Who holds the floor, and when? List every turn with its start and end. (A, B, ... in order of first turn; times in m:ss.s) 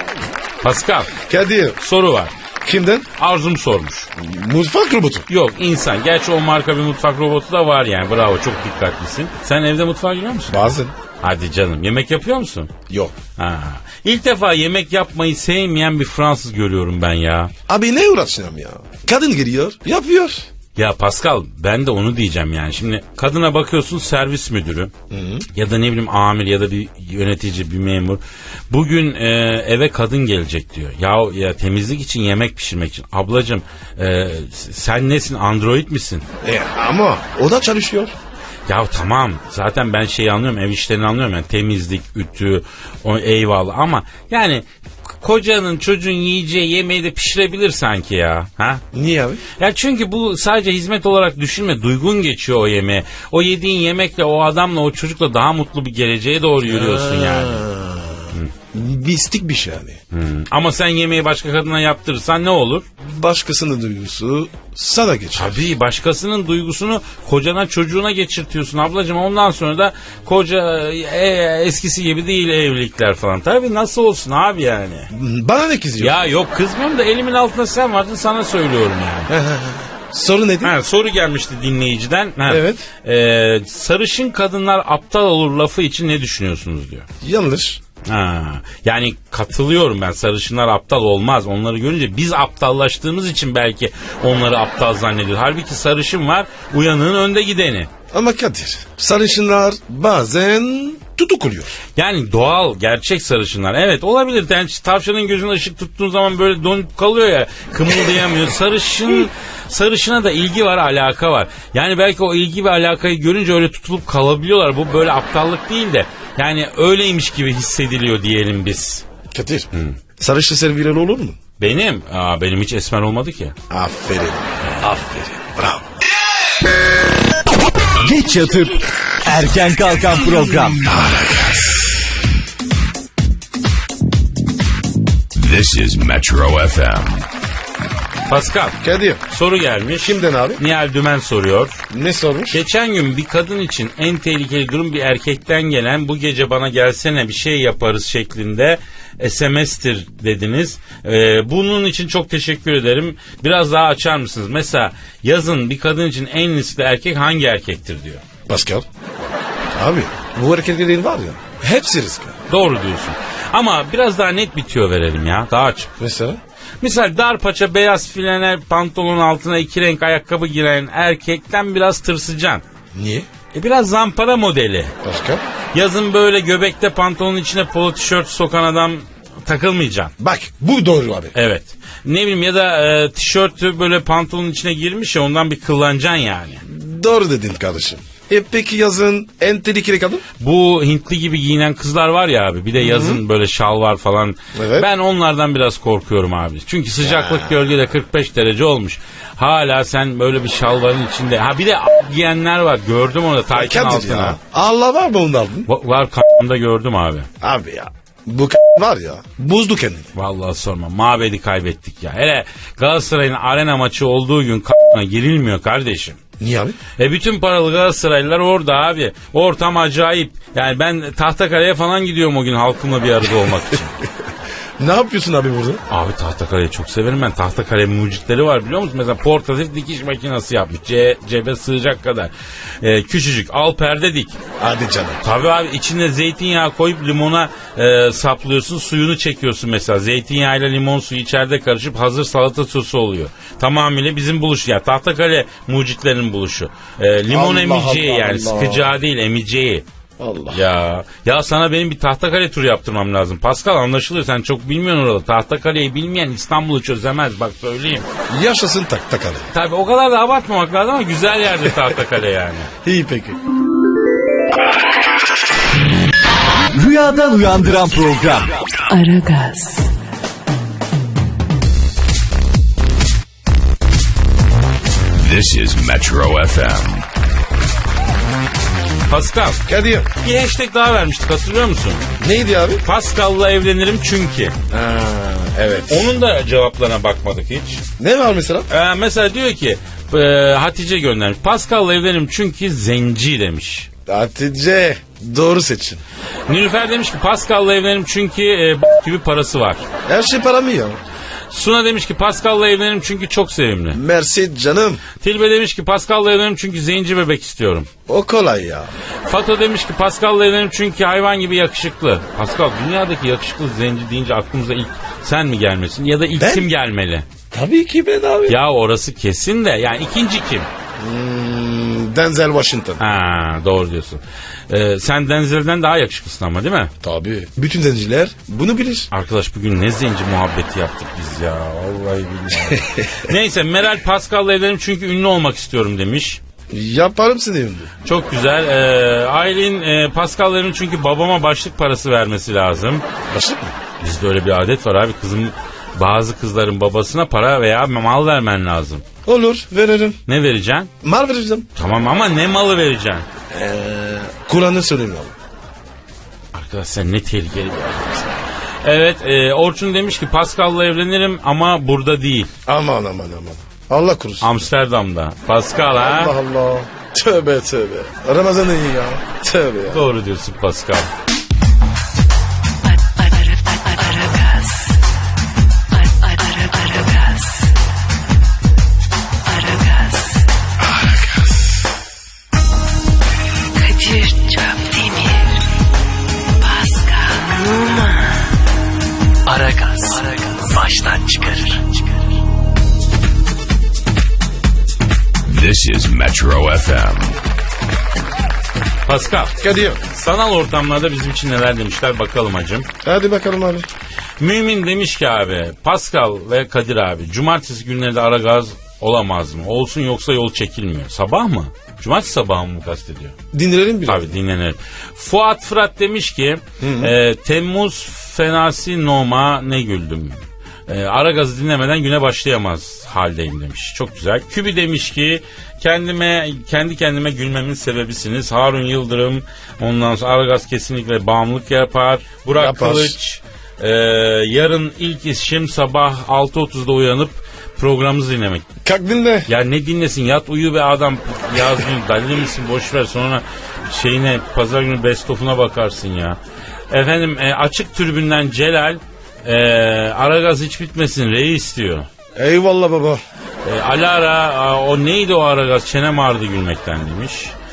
0:00.6-0:01.2 A
0:01.2-0:01.8 B
0:01.8-0:02.3 A
0:02.6-0:03.1 B
0:03.2-0:04.1 A
0:04.2-0:05.3 B
0:05.3-0:12.7 A
0:10.5-0:11.0 B
0:12.9-0:13.1 B
0:13.4-0:17.5 A
0:17.7-0:20.5 B
0:20.8-0:24.9 A
0:25.1-0:25.5 B
0:25.5-0:36.2 A
0:36.4-0:38.2 B
0:38.7-0:44.6 A
0:45.2-0:48.8 A
0:48.9-0:49.4 B
0:49.6-0:57.6 A
0:56.7-1:00.0 B
1:00.1-1:02.9 A
1:03.0-1:05.6 B
1:05.4-1:15.1 A
1:15.1-1:16.2 B
1:16.0-1:19.3 A
1:19.3-1:20.7 B
1:20.6-1:27.1 A
1:22.5-1:22.9 B
1:27.2-1:27.8 B
1:28.1-1:37.9 A
1:38.1-1:41.8 B
1:42.0-1:59.0 A
1:59.3-2:01.4 B
2:01.6-2:03.6 A
2:03.7-2:05.9 B
2:04.6-2:04.9 A
2:08.0-2:10.8 C
2:10.9-2:12.0 B
2:15.4-2:17.3 D
2:18.3-2:21.8 A
2:18.8-2:19.2 B
2:20.0-2:20.6 B
2:21.9-2:22.6 B
2:22.5-2:38.2 A
2:38.5-2:38.8 B
2:39.8-2:42.4 B
2:42.5-2:45.9 A
2:46.0-2:46.4 B
2:46.8-2:52.6 A
2:53.0-2:53.3 B
2:53.5-2:54.9 A
2:55.0-2:55.4 B
2:55.7-3:00.1 A
3:00.2-3:01.3 B
3:01.4-3:06.6 A
3:06.6-3:10.2 B
3:10.4-3:24.4 A
3:12.8-3:13.2 B
3:14.6-3:14.9 B
3:17.0-3:17.6 B
3:23.5-3:25.7 B
3:25.7-3:27.3 A
3:27.4-3:30.1 B
3:30.2-3:36.2 A
3:36.4-3:36.8 B
3:37.0-3:44.0 A
3:44.8-3:45.8 B
3:45.9-3:54.4 A
3:54.6-3:55.2 B
3:55.2-4:09.8 A
4:07.3-4:08.9 B
4:10.2-4:10.6 B
4:10.5-4:18.1 A
4:18.3-4:19.5 B
4:19.5-4:22.7 A
4:22.8-4:23.4 B
4:26.7-4:28.8 C
4:28.9-4:29.9 E
4:35.2-4:37.1 D
4:39.1-4:39.6 A
4:39.7-4:40.1 B
4:40.2-4:42.1 A
4:42.2-4:42.8 B
4:42.8-4:44.6 A
4:44.7-4:46.1 B
4:45.9-4:47.8 A
4:48.0-4:48.7 B
4:48.7-4:53.9 A
4:54.1-4:56.0 B
4:56.5-4:59.9 A
5:00.1-5:01.0 B
5:01.5-5:04.0 A
5:03.9-5:05.0 B
5:05.2-5:07.9 A
5:08.1-5:08.9 B
5:09.3-5:17.3 A
5:16.4-5:16.7 B
5:17.5-5:18.6 B
5:18.5-5:20.7 A
5:21.0-5:23.0 B
5:23.0-5:26.9 A
5:27.0-5:29.1 B
5:29.1-5:36.4 A
5:32.5-5:33.3 B
5:36.7-5:37.9 B
5:38.0-5:43.0 A
5:43.3-5:43.7 B
5:44.0-5:49.0 A
5:49.2-5:50.2 B
5:50.3-5:50.9 A
5:51.0-5:51.7 B
5:51.8-5:53.3 A
5:53.5-5:55.3 B
5:56.5-6:02.5 A
6:02.7-6:04.7 B
6:04.4-6:06.3 A
6:05.9-6:10.1 B
6:09.9-6:11.1 A
6:12.9-6:14.9 E
6:15.9-6:17.7 E
6:19.4-6:20.4 E
6:23.8-6:25.6 E
6:26.6-6:28.4 E
6:29.5-6:31.8 E
6:35.5-6:37.4 D
6:39.1-6:42.9 A
6:39.6-6:40.0 B
6:43.0-6:43.9 B
6:44.4-6:53.4 A
6:53.5-6:54.3 B
6:54.1-7:18.6 A
6:56.8-6:57.1 B
7:12.5-7:13.2 B
7:18.8-7:19.5 B
7:19.5-7:26.4 A
7:26.9-7:32.1 A
7:32.4-7:33.2 B
7:33.6-7:37.5 A